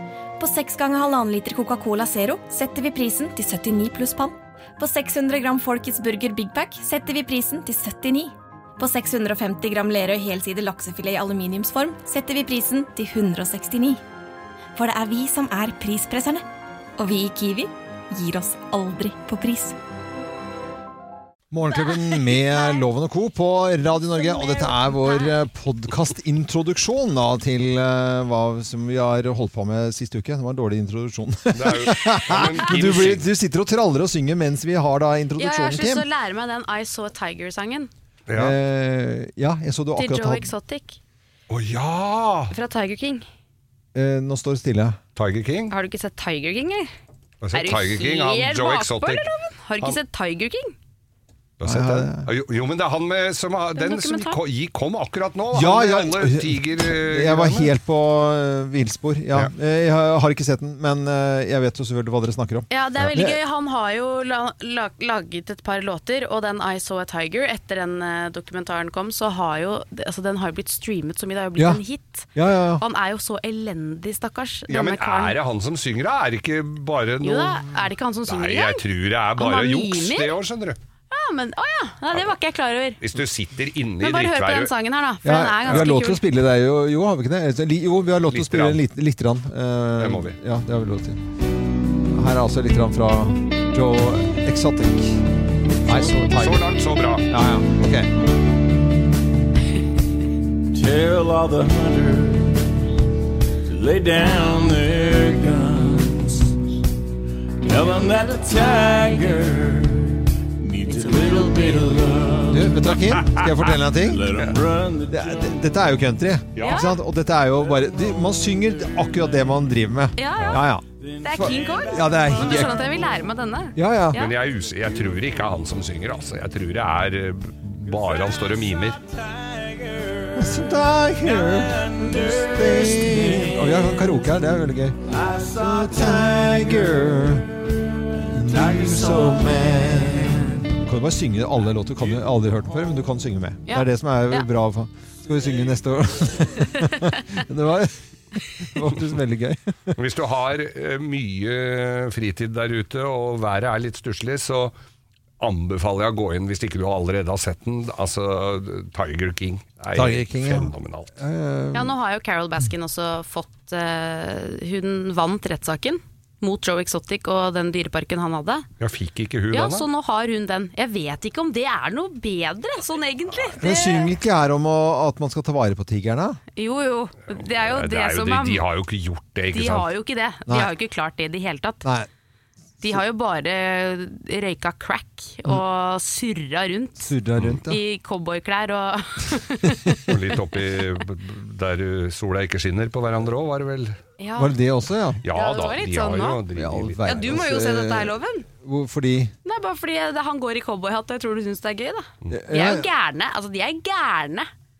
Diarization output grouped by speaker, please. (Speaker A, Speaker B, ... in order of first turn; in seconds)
Speaker A: 0.4-14.0, 14.8-16.4, 17.0-19.8
Speaker B: 21.5-36.0, 38.4-40.5, 43.9-45.0, 51.6-52.3, 55.5-63.4, 71.5-71.8, 72.3-72.8, 85.2-91.2, 92.1-95.2, 95.8-96.7, 97.3-98.1, 112.5-114.3, 115.1-122.8, 123.7-124.2, 130.3-135.0, 135.5-137.6, 138.2-150.0, 159.9-161.9, 173.6-176.4, 181.8-182.1, 187.0-187.8, 189.6-190.1, 194.4-195.2, 196.5-199.3, 202.3-202.9
Speaker C: 24.4-25.3, 35.4-37.9, 40.0-41.0, 42.5-43.2, 45.7-46.9, 47.5-50.7, 53.8-54.4, 62.7-75.4, 77.2-78.8, 79.3-80.4, 81.1-83.0, 84.0-86.2, 116.6-117.0, 120.2-120.6, 121.2-124.3, 143.7-144.4, 161.7-168.7, 169.5-174.1, 176.6-178.7, 179.5-181.8, 182.8-187.1, 187.7-189.8, 194.2-194.5, 195.3-196.4, 197.0-198.4, 199.4-204.5
Speaker D: 31.5-33.3, 38.3-38.5, 41.5-42.5, 45.1-45.7, 47.4-49.2, 51.6-57.7, 74.7-80.8, 83.0-84.7, 88.2-88.8, 90.0-90.4, 95.9-97.3, 113.1-113.4, 116.6-116.8, 124.1-129.0, 150.0-154.7, 155.4-161.1, 168.8-169.9, 177.6-179.9, 190.0-194.0, 195.2-197.2
Speaker E: 100.7-102.7, 103.7-106.6, 107.6-112.8, 113.9-115.6, 117.9-118.3, 118.8-119.4, 121.0-123.1, 127.8-133.9, 135.1-136.9, 138.3-140.5